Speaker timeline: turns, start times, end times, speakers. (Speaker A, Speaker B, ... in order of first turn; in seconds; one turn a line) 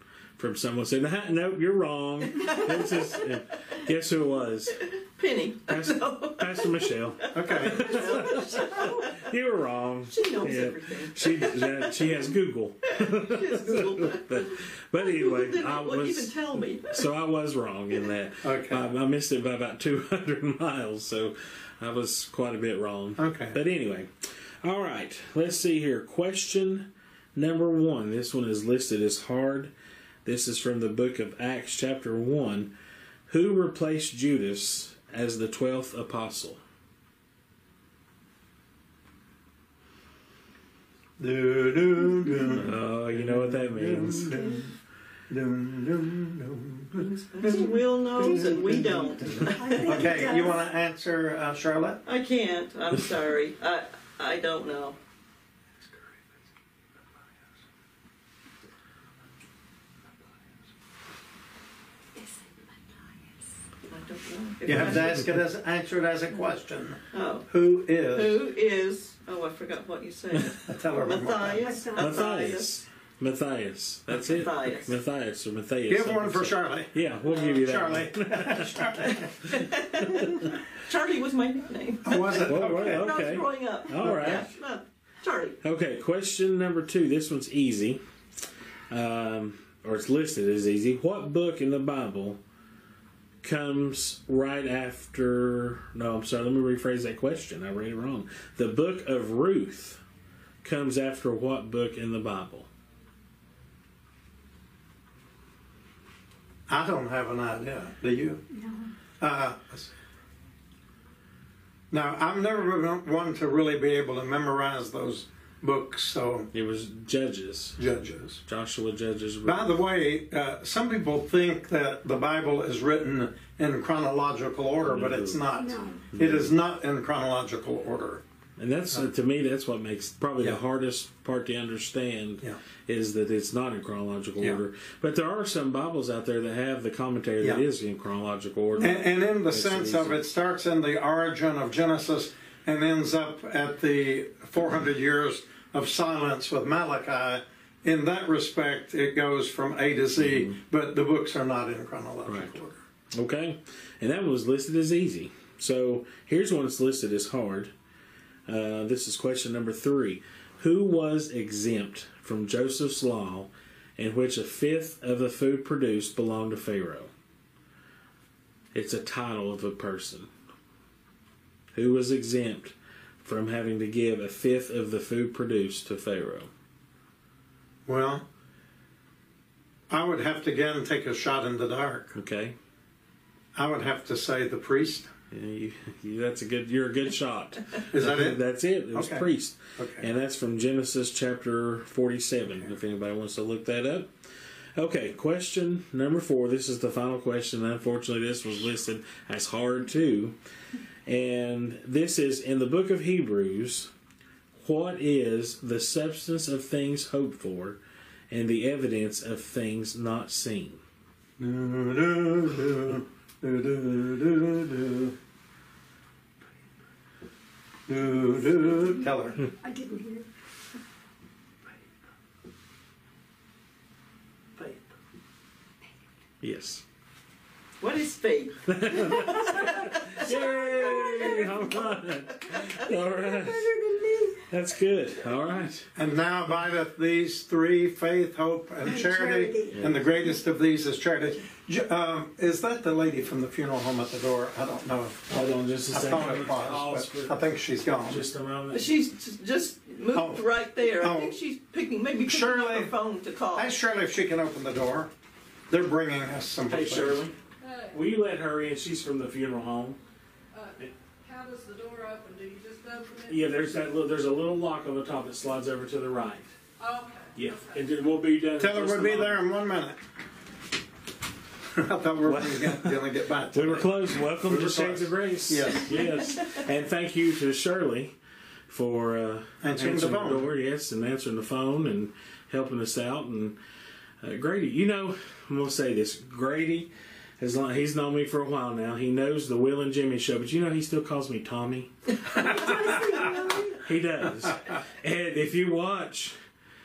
Speaker A: 0.4-4.9
Speaker B: 2.4-3.1
Speaker B: 4.9-9.3
Speaker A: 5.7-16.3
Speaker C: 7.3-8.2
Speaker B: 10.1-12.3
Speaker B: 12.9-17.1
Speaker A: 16.9-24.1
Speaker C: 18.4-18.9
Speaker C: 23.2-23.6
Speaker A: 24.6-29.7
Speaker A: 30.2-32.7
Speaker A: 33.3-36.6
Speaker C: 41.2-44.7
Speaker A: 42.5-44.3
Speaker D: 44.3-44.6
Speaker C: 45.3-52.0
Speaker B: 47.0-50.3
Speaker D: 47.5-50.6
Speaker B: 52.0-55.0
Speaker B: 63.8-65.2
Speaker C: 64.6-68.4
Speaker B: 67.1-67.5
Speaker B: 68.1-72.8
Speaker C: 70.6-71.7
Speaker D: 71.6-72.4
Speaker A: 72.0-79.2
Speaker B: 74.1-75.0
Speaker C: 75.9-79.3
Speaker B: 79.0-85.6
Speaker C: 82.0-83.1
Speaker A: 82.5-84.5
Speaker C: 84.0-84.3
Speaker A: 85.6-88.0
Speaker A: 88.9-92.4
Speaker A: 93.4-100.0
Speaker A: 100.6-102.7
Speaker C: 106.7-108.4
Speaker D: 108.5-108.9
Speaker C: 109.2-109.9
Speaker C: 111.9-116.5
Speaker A: 116.5-117.8
Speaker C: 117.8-118.4
Speaker A: 118.5-119.8
Speaker C: 119.4-128.2
Speaker A: 124.9-125.4
Speaker D: 125.5-126.0
Speaker A: 126.1-126.5
Speaker A: 128.6-140.2
Speaker C: 138.8-152.8
Speaker A: 150.2-150.6
Speaker A: 152.2-152.6
Speaker A: 153.1-157.7
Speaker A: 158.5-167.1
Speaker A: 168.7-170.3
Speaker A: 171.7-176.5
Speaker C: 177.8-178.2
Speaker C: 179.9-182.2
Speaker A: 182.1-182.5
Speaker C: 183.5-185.1
Speaker A: 185.3-194.1
Speaker C: 187.9-188.4
Speaker C: 188.9-190.1
Speaker A: 194.8-200.3
Speaker A: 201.1-203.9
Speaker A: 204.6-207.8
Speaker A: 208.3-210.8
Speaker C: 211.4-215.1
Speaker C: 217.9-219.4
Speaker D: 218.8-220.3
Speaker A: 226.4-226.8
Speaker B: 227.8-232.8
Speaker A: 228.7-233.7
Speaker D: 230.2-231.8
Speaker D: 232.9-234.5
Speaker A: 234.5-235.9
Speaker C: 235.9-245.2
Speaker D: 238.8-239.8
Speaker A: 239.7-240.0
Speaker A: 245.3-247.4
Speaker C: 245.9-248.2
Speaker A: 248.0-248.9
Speaker B: 248.7-253.7
Speaker C: 250.1-250.5
Speaker C: 251.0-251.3
Speaker C: 252.2-252.9
Speaker C: 253.5-255.1
Speaker C: 255.7-257.2
Speaker A: 256.7-257.3
Speaker E: 257.6-258.0
Speaker A: 257.9-260.0
Speaker E: 260.5-263.5
Speaker A: 263.3-266.5
Speaker E: 266.8-268.0
Speaker A: 267.4-269.4
Speaker C: 268.6-270.0
Speaker C: 271.7-276.1
Speaker A: 272.2-273.0
Speaker A: 273.5-278.1
Speaker A: 278.7-283.6
Speaker C: 279.6-280.5
Speaker A: 284.2-293.2
Speaker D: 292.3-293.8
Speaker A: 293.8-296.4